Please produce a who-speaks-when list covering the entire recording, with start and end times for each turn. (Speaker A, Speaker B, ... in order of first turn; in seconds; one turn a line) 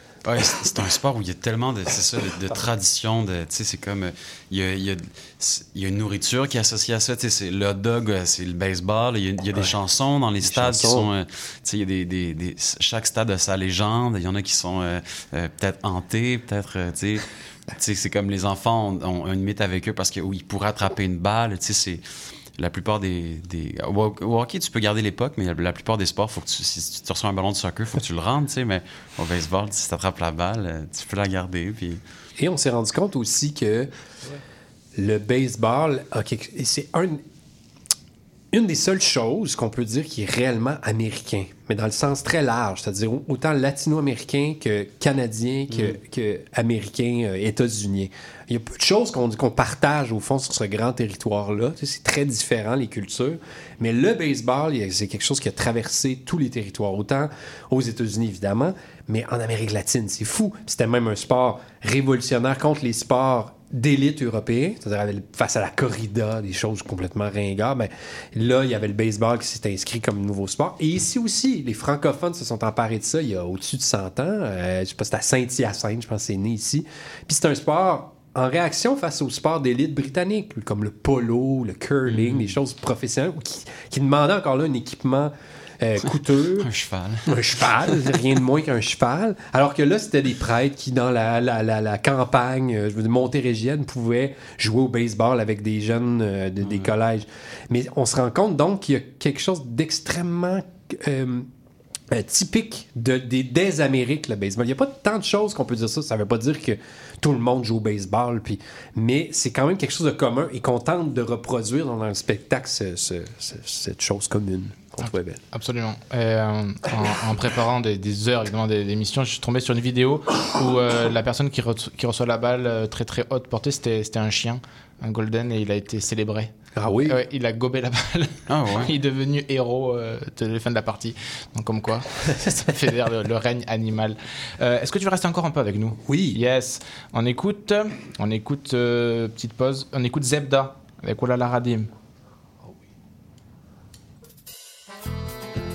Speaker A: 0.2-22.0
Speaker B: 10.4-11.1
Speaker A: 22.6-32.0
Speaker B: 32.4-33.9
Speaker B: 35.0-37.2
Speaker B: 38.5-86.7
Speaker A: 45.7-46.0
Speaker A: 82.1-82.5
Speaker A: 86.6-88.1
Speaker B: 87.3-101.5
Speaker A: 96.6-96.9
Speaker B: 102.1-115.4
Speaker C: 115.0-126.5
Speaker B: 126.7-127.2
Speaker C: 127.0-141.9
Speaker A: 128.5-128.9
Speaker B: 136.1-136.4